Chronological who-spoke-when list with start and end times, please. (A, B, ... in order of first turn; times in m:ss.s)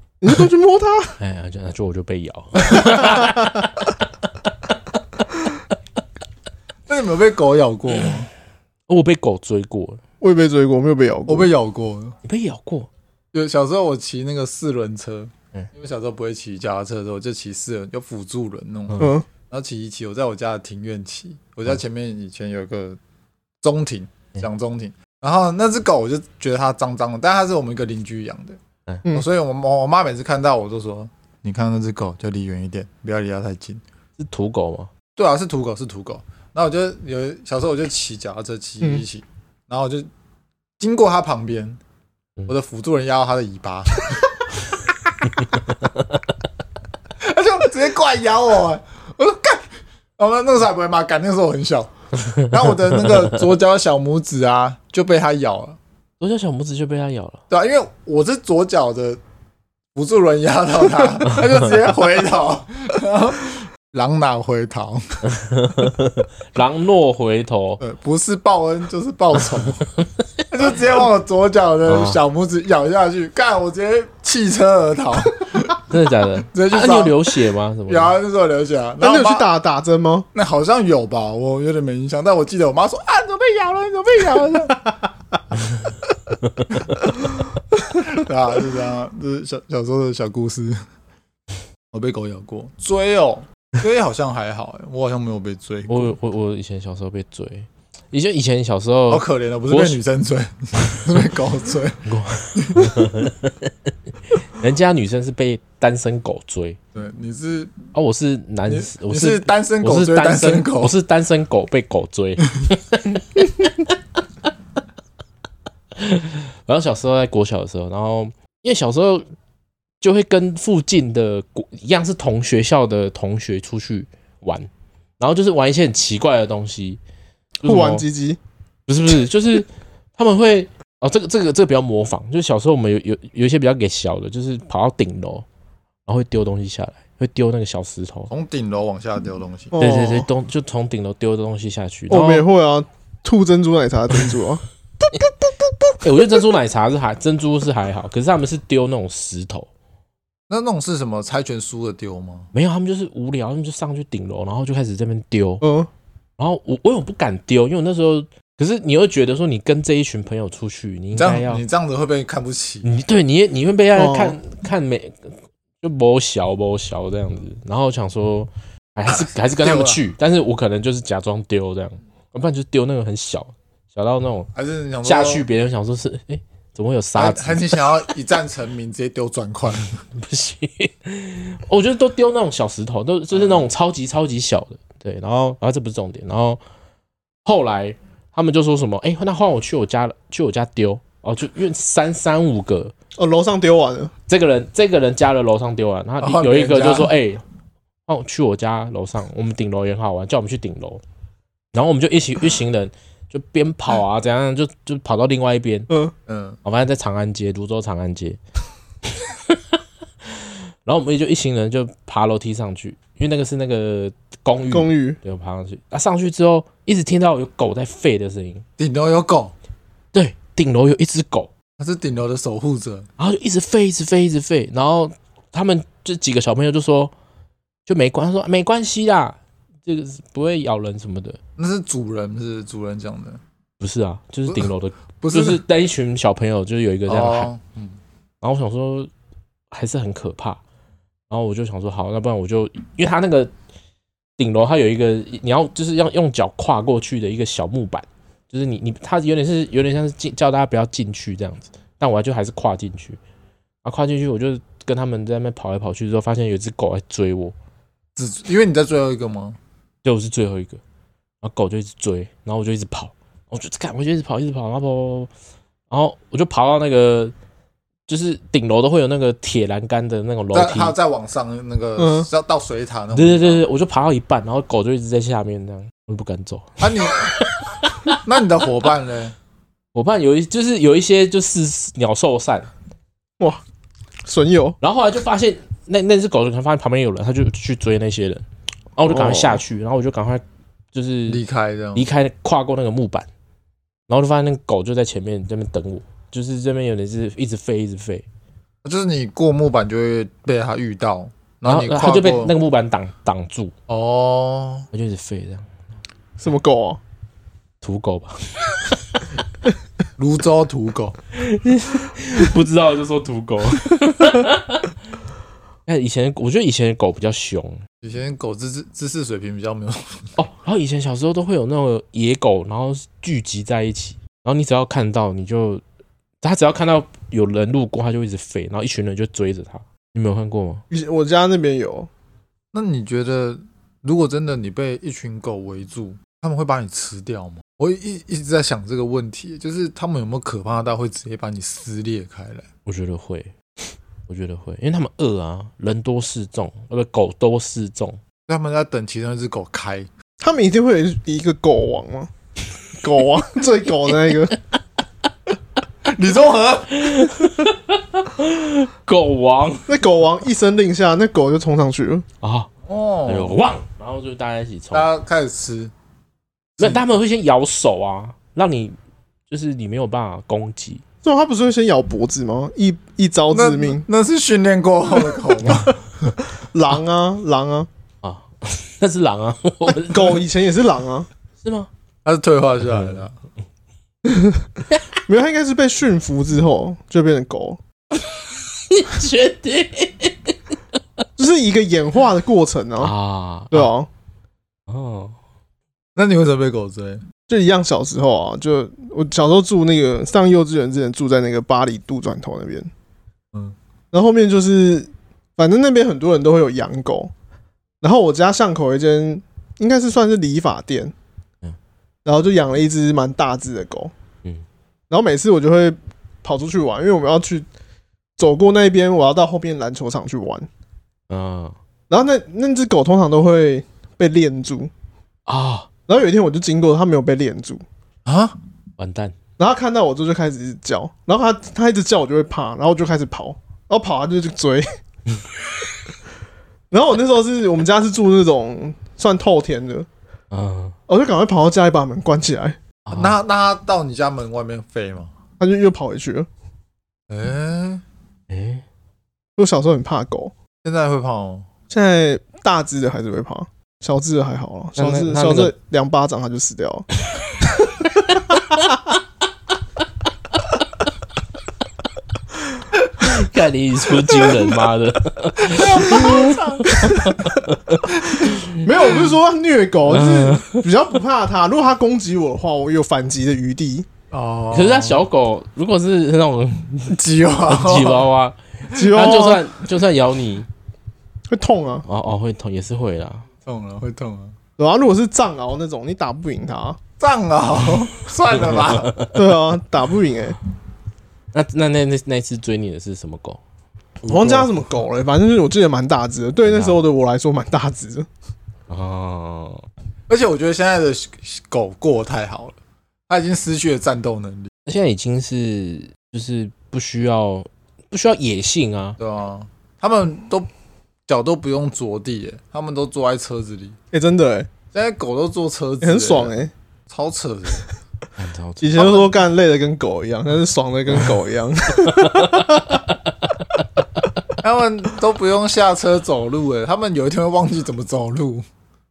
0:00.2-0:01.2 A
0:01.2-0:03.9 B
0:06.9-0:08.3 C
0:08.9-0:10.0 B
0:10.2-0:11.5 A
0:11.3-0:12.2 C
0:12.2-0:12.9 B
0:13.3-0:23.0 C
0:19.0-0:19.3 A
0:23.6-0:33.8 C
0:34.2-0:34.9 B
0:35.2-0:40.1 C
0:40.8-0:41.8 C
0:42.5-0:44.4 C
0:45.4-0:46.0 B
0:47.2-0:55.8 C
0:56.2-0:57.4 B
0:57.5-0:59.2 C
0:59.9-1:05.2 C
1:05.3-1:07.8 B
1:07.8-1:09.8 C
1:10.5-1:15.8 C
1:11.8-1:12.2 B
1:15.9-1:18.1 B
1:16.5-1:17.2 C
1:17.9-1:19.5 C
1:19.0-1:20.3 A
1:20.3-1:24.9 C
1:27.9-1:30.8 C
1:31.9-1:36.1 C
1:35.9-1:40.0 B
1:39.1-1:42.0 C
1:42.0-1:46.8 B
1:42.6-1:43.0 C
1:46.9-1:47.8 C
1:47.9-1:53.9 B
1:48.7-1:50.9 C
1:56.0-1:59.2 B
2:00.0-2:07.0 B
2:07.6-2:08.1 B
2:07.6-2:08.4 A
2:08.9-2:15.4 B
2:16.1-2:18.3 B
2:18.3-2:19.7 C
2:19.7-2:20.3 A
2:19.8-2:22.4 B
2:22.1-2:24.6 A
2:26.0-2:29.7 B
2:30.5-2:32.5 C
2:32.5-2:35.6 B
2:35.6-2:35.9 A
2:36.4-2:41.6 B
2:41.2-2:42.9 C
2:42.8-2:54.5 B
2:44.0-2:44.4 A
2:49.1-2:50.0 C
2:54.5-2:55.4 C
2:55.0-2:58.0 B
2:57.2-3:00.0 C
3:00.1-3:06.6 B
3:03.3-3:03.7 C
3:07.4-3:12.9 B
3:13.2-3:14.1 A
3:14.3-3:17.4 B
3:16.2-3:17.1 C
3:18.1-3:21.0 B
3:21.7-3:25.9 B
3:26.3-3:26.6 C
3:26.6-3:28.4 B
3:29.0-3:29.6 B
3:30.3-3:38.6 B
3:34.7-3:35.2 A
3:38.8-3:39.5 C
3:40.1-3:41.5 B
3:41.8-3:43.1 C
3:43.2-3:47.1 B
3:47.8-3:51.4 B
3:51.6-3:53.4 C
3:53.8-3:57.5 B
3:54.5-3:55.6 C
3:57.1-3:58.0 C
3:58.4-3:59.1 B
3:59.7-4:00.6 B
4:01.3-4:03.5 B
4:04.4-4:13.2 B
4:13.8-4:17.5 B
4:18.2-4:19.6 C
4:20.0-4:20.8 B
4:21.4-4:25.3 B
4:25.9-4:27.3 B
4:28.1-4:30.9 B
4:30.5-4:33.6 C
4:32.0-4:32.3 A
4:33.1-4:38.2 B
4:36.8-4:39.4 C
4:39.9-4:42.7 B
4:44.2-4:44.8 A
4:44.8-4:48.4 B
4:49.0-4:51.4 B
4:49.1-4:49.6 A
4:51.3-4:52.1 C
4:51.9-4:53.3 B
4:54.1-4:58.2 B
4:58.8-5:02.5 C
5:01.6-5:03.7 B
5:03.9-5:04.9 C
5:04.9-5:05.7 B
5:06.4-5:07.0 A
5:07.8-5:09.2 B
5:10.2-5:11.2 C
5:11.3-5:14.9 B
5:15.9-5:17.8 B
5:18.0-5:20.3 C
5:20.4-5:25.8 B
5:26.4-5:30.8 B
5:30.9-5:32.1 A
5:32.7-5:42.7 C
5:42.8-5:43.5 B
5:44.3-5:48.2 B
5:48.5-5:50.1 C
5:50.4-5:52.3 A
5:53.0-5:54.5 A
5:56.0-5:57.3 C
5:56.9-6:00.0 B
5:59.9-6:02.2 A
6:02.4-6:02.7 B
6:02.9-6:03.6 C
6:03.3-6:05.1 B
6:04.9-6:05.9 C
6:06.8-6:07.0 C
6:06.8-6:08.9 B
6:09.5-6:11.0 B
6:11.2-6:14.0 A
6:13.5-6:16.3 C
6:15.6-6:15.9 A
6:16.6-6:17.9 A
6:18.2-6:20.4 B
6:19.9-6:21.3 A
6:21.6-6:21.9 B
6:22.2-6:23.3 C
6:22.9-6:23.2 B
6:24.2-6:24.7 A
6:25.3-6:27.8 A
6:28.2-6:30.5 B
6:31.4-6:33.1 A
6:33.0-6:33.9 B
6:33.7-6:34.1 A
6:34.9-6:35.3 B
6:36.2-6:37.2 C
6:37.5-6:42.9 A
6:44.1-6:47.3 A
6:48.0-6:51.1 A
6:52.2-6:54.1 A
6:55.1-6:57.7 A
6:58.4-7:00.7 A
7:01.3-7:01.8 B
7:02.1-7:04.9 A
7:05.5-7:05.9 B
7:06.1-7:07.8 A
7:08.2-7:08.6 C
7:09.0-7:09.4 B
7:09.6-7:14.9 A
7:16.9-7:20.1 A
7:20.5-7:21.0 B
7:21.1-7:22.8 A
7:23.1-7:23.4 B
7:23.1-7:25.3 C
7:25.6-7:26.5 A
7:27.3-7:28.0 C
7:28.5-7:28.8 B
7:29.6-7:30.5 A
7:30.8-7:31.7 C
7:31.9-7:37.1 A
7:35.0-7:35.7 B
7:37.8-7:38.8 A
7:38.1-7:39.0 B
7:43.2-7:48.8 B
7:45.7-7:47.3 C
7:46.9-7:47.3 A
7:48.5-7:54.1 A
7:50.1-7:50.8 B
7:54.3-7:55.2 C
7:54.7-8:00.7 B
7:57.1-7:58.2 C
7:58.9-7:59.6 A
8:01.5-8:02.0 A
8:02.0-8:03.5 B
8:03.6-8:04.6 C
8:04.8-8:07.0 A
8:07.2-8:09.1 C
8:08.8-8:09.3 B
8:09.3-8:10.6 A
8:11.5-8:13.6 B
8:14.2-8:14.7 C
8:14.3-8:18.3 A
8:16.7-8:17.0 B
8:18.9-8:19.8 B
8:20.3-8:22.8 C
8:23.3-8:24.7 C
8:24.8-8:29.2 B
8:29.2-8:30.7 C
8:31.3-8:34.0 C
8:34.1-8:34.7 A
8:34.9-8:36.5 C
8:36.0-8:36.7 A
8:37.1-8:37.8 C
8:38.4-8:39.2 B
8:38.8-8:43.0 A
8:39.0-8:39.3 C
8:42.1-8:43.1 B
8:44.6-8:48.6 C